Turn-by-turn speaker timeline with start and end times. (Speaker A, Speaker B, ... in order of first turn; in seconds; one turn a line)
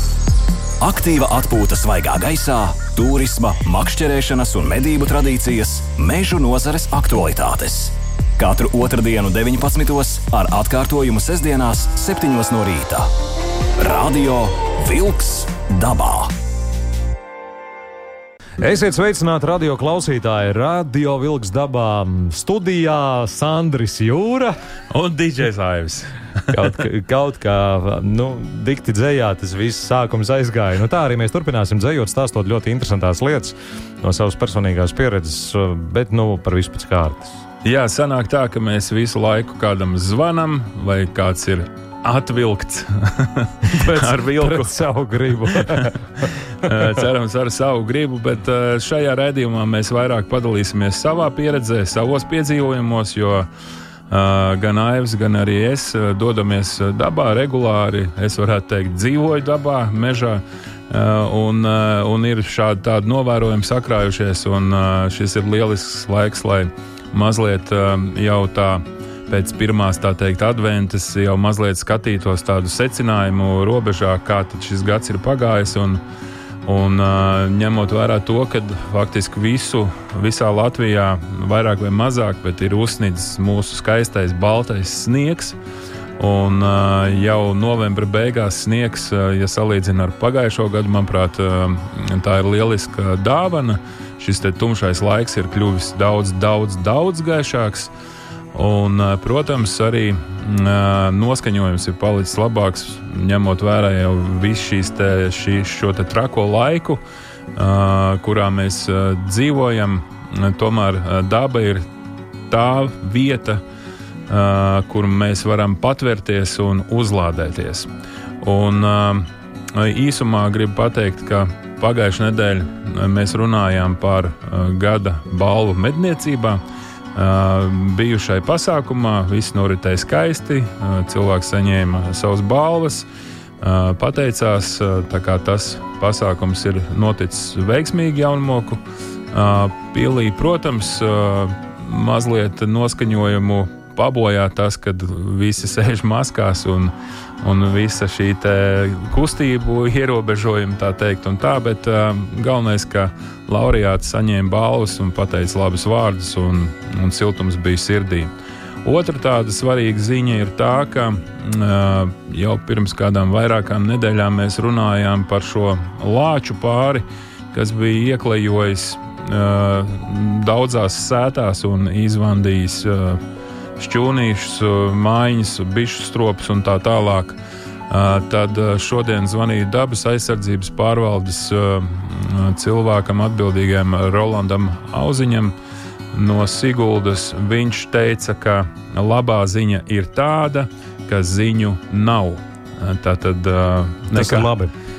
Speaker A: 0.8-13.1
Speaker A: 13.8-16.3
Speaker B: 18.6-24.6
Speaker C: 24.9-26.7
Speaker B: 26.5-37.4
Speaker C: 37.6-44.7
Speaker B: 43.7-46.9
Speaker C: 45.5-53.5
Speaker C: 54.1-76.0
Speaker C: 76.7-85.6
Speaker C: 86.2-97.9
Speaker C: 98.5-107.0
Speaker C: 107.5-111.9
Speaker C: 112.5-113.6
Speaker C: 114.3-117.9
Speaker C: 118.4-126.6
Speaker C: 127.2-133.1
Speaker C: 133.6-138.8
Speaker C: 139.3-158.3
Speaker C: 158.8-173.2
Speaker C: 173.8-177.4
Speaker C: 177.9-185.6
Speaker C: 186.1-194.5
Speaker B: 194.1-194.7